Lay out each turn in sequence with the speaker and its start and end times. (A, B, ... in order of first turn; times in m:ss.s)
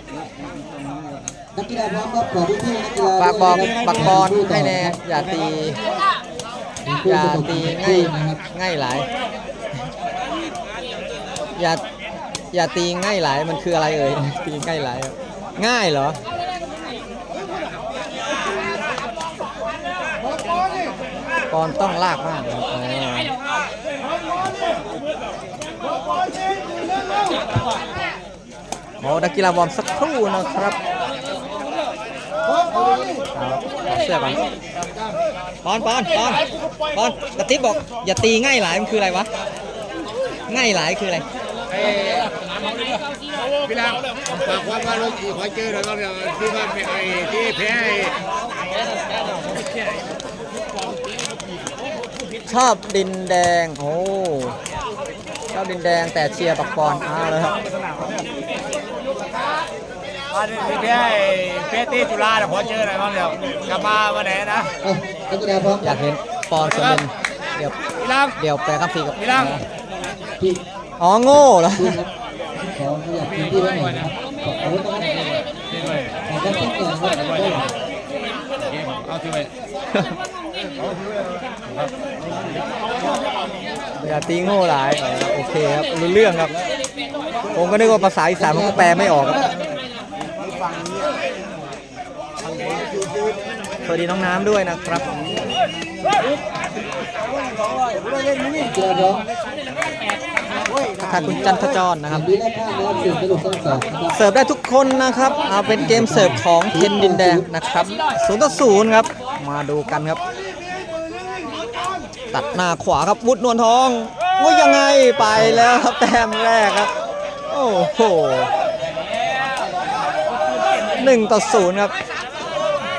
0:01.6-0:05.0 A
0:03.2-0:05.8 B
0:06.8-0:08.4 A
0:07.0-0:09.1 B
0:11.6-0:11.8 B
0:12.5-0:16.2 B
0:21.5-0:23.4 B
0:29.0-0:30.8 B
0:33.3-0:34.4 B
0:35.6-0:36.4 B
0:36.9-0:39.3 B
0:40.5-0:41.2 B
0:41.7-0:43.0 C
0:43.6-0:48.1 C
0:52.5-0:54.6 B
0:55.5-0:57.6 B
1:00.4-1:04.7 C
1:04.8-1:06.0 A
1:05.8-1:07.8 B
1:08.0-1:08.3 C
1:08.4-1:09.6 B
1:11.0-1:12.0 B
1:11.8-1:12.1 A
1:12.7-1:15.2 A
1:16.3-1:17.7 A
1:18.6-1:19.5 C
1:24.0-1:26.5 B
1:27.5-1:29.5 B
1:28.4-1:29.5 A
1:33.8-1:35.1 B
1:38.6-1:39.2 A
1:41.0-1:42.2 B
1:42.1-1:44.2 A
1:44.1-1:50.2 B
1:45.7-1:47.5 A
1:52.3-1:56.9 B
1:55.2-1:55.7 A
1:57.5-1:58.5 B
2:00.9-2:01.9 B